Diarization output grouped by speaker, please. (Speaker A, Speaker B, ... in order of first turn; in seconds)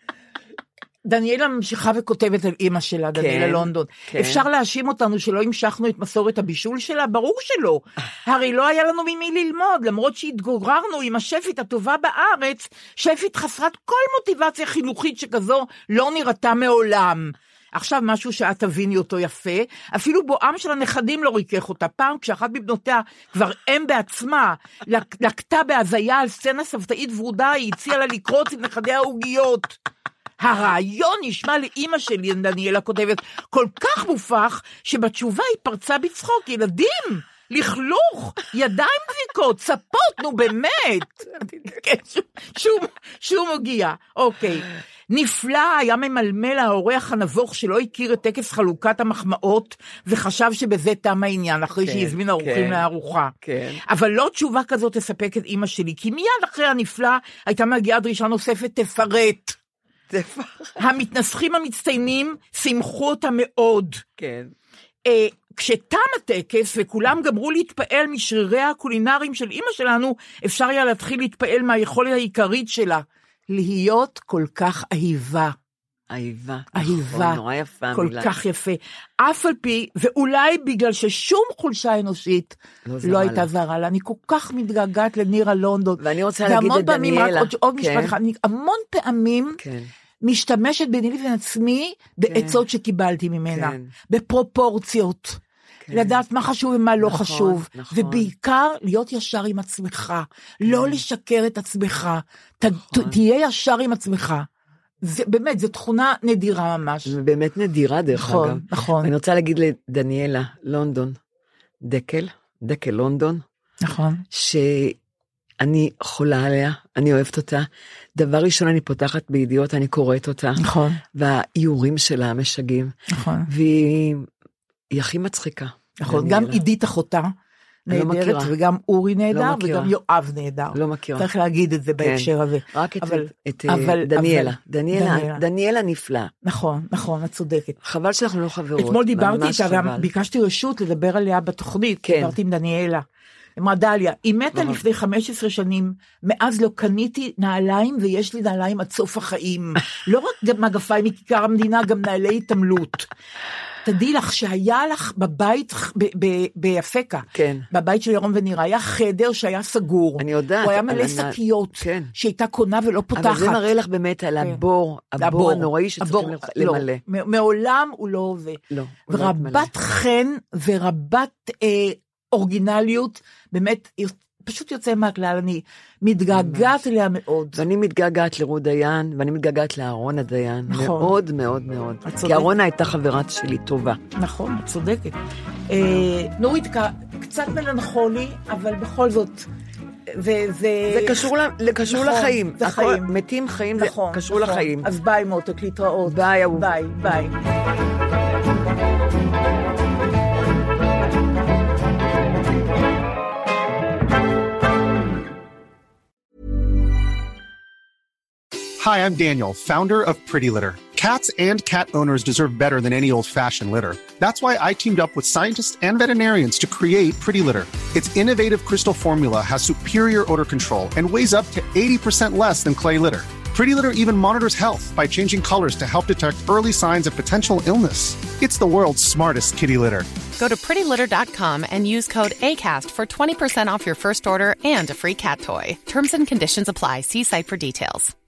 Speaker A: 1.1-29.8, 30.4-53.3, 53.9-59.6, 60.8-64.0, 65.1-75.5, 76.7-77.4, 77.9-89.6, 90.2-95.4, 95.9-104.5, 105.0-107.1, 108.1-109.1, 113.8-114.2, 120.6-121.0, 123.1-123.5, 126.0-127.3, 127.9-135.4, 136.4-137.8, 138.8-143.0, 143.6-153.1, 153.8-163.6, 165.2-177.6, 180.7-181.1, 182.1-182.5, 184.2-185.2, 185.7-189.5, 190.1-191.3, 191.9-193.1, 193.8-197.4
Speaker B: 3.1-4.5, 51.8-52.8, 53.4-53.8, 60.1-60.8, 64.2-64.5, 76.1-78.3, 82.9-83.5, 86.0-88.2, 89.6-89.9, 92.3-92.6, 93.5-93.9, 95.8-96.2, 97.0-98.3, 100.7-101.0, 102.9-103.2, 107.1-111.2, 111.8-113.4, 114.3-115.0, 115.6-120.6, 121.1-122.9, 123.5-124.3, 124.9-126.6, 127.9-128.5, 129.3-129.9, 130.7-131.3, 132.0-136.3, 137.8-140.1, 142.0-142.4, 144.5-144.8, 157.3-157.7, 160.2-162.1, 163.2-167.0, 168.7-169.7, 176.3-176.7, 177.6-184.0, 190.9-194.9, 196.1-196.7
Speaker C: 208.8-230.1
Speaker D: 230.4-238.1